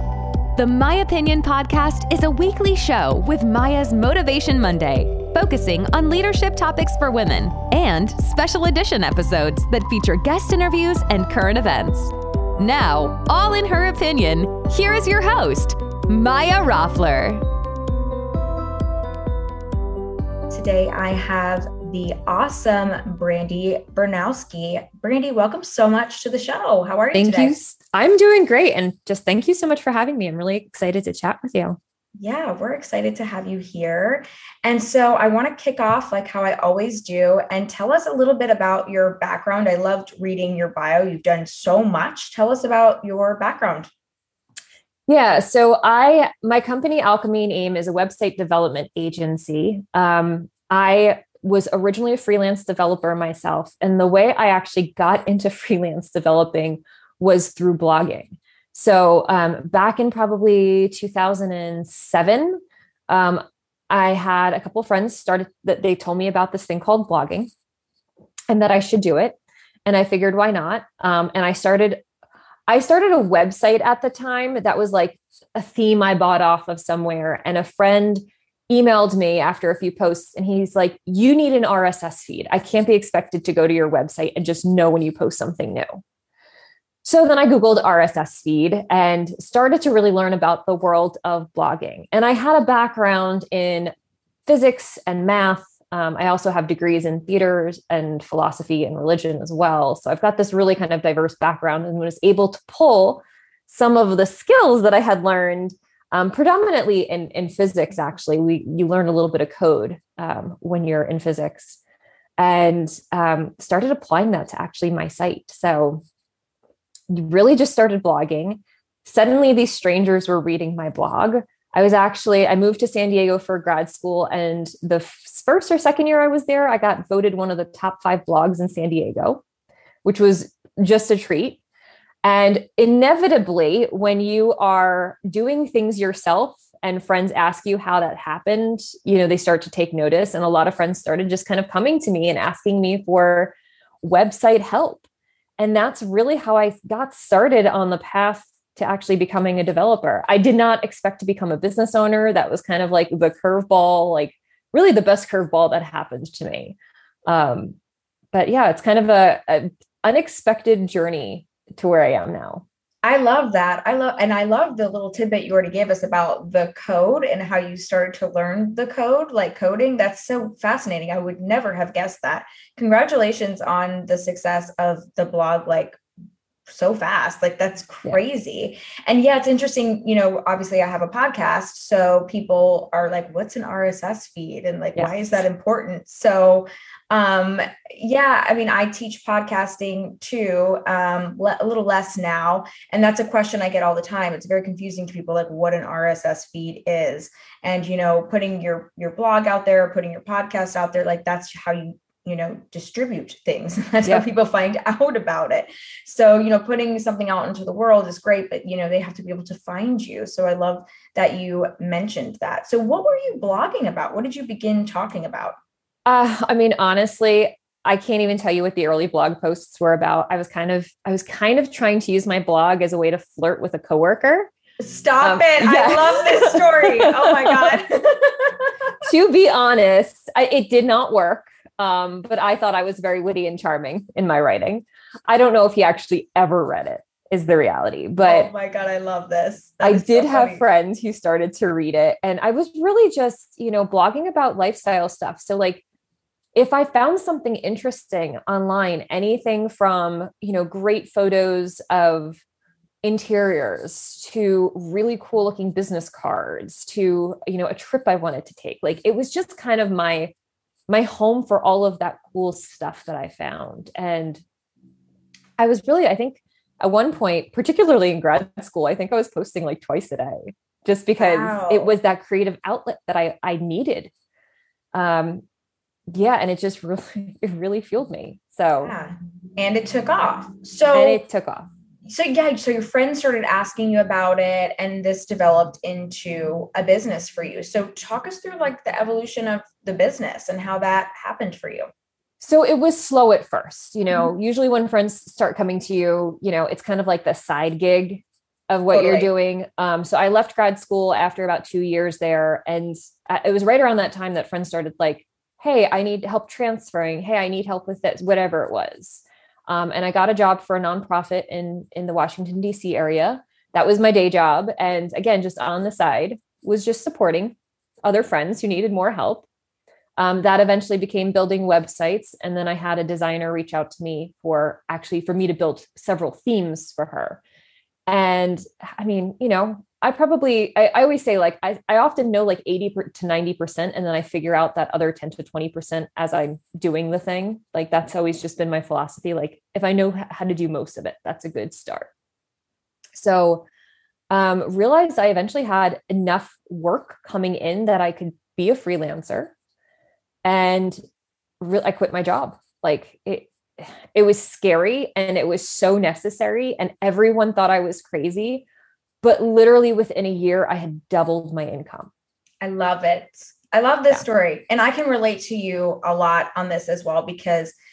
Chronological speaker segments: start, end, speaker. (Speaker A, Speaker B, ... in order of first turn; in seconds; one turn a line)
Speaker A: 0.6-17.4
Speaker B: 20.5-27.6
Speaker C: 27.1-31.8
Speaker B: 32.2-43.9
Speaker C: 45.1-67.5
Speaker C: 68.5-72.0
Speaker C: 72.7-86.0
Speaker C: 87.0-93.9
Speaker C: 94.5-111.8
Speaker C: 112.4-116.0
Speaker C: 117.1-129.4
Speaker C: 130.0-131.6
Speaker C: 132.2-145.0
Speaker C: 145.6-156.7
Speaker C: 157.3-157.8
Speaker C: 158.3-162.6
Speaker B: 163.0-176.0
Speaker B: 176.7-215.6
Speaker C: 216.1-224.5
Speaker B: 224.8-228.7
Speaker C: 225.2-227.8
Speaker C: 229.0-238.5
Speaker B: 238.2-240.6
Speaker C: 239.8-245.8
Speaker C: 246.5-252.4
Speaker C: 253.0-260.3
Speaker C: 260.9-264.4
Speaker C: 265.6-274.1
Speaker B: 271.2-271.9
Speaker C: 274.9-275.4
Speaker C: 276.1-278.9
Speaker B: 278.8-281.2
Speaker C: 280.9-281.7
Speaker B: 282.1-291.9
Speaker C: 292.4-319.4
Speaker B: 298.9-299.3
Speaker C: 320.2-327.4
Speaker C: 328.1-342.1
Speaker C: 343.1-343.6
Speaker C: 344.3-349.5
Speaker C: 350.4-351.0
Speaker C: 351.6-358.6
Speaker C: 359.2-362.1
Speaker B: 362.6-367.7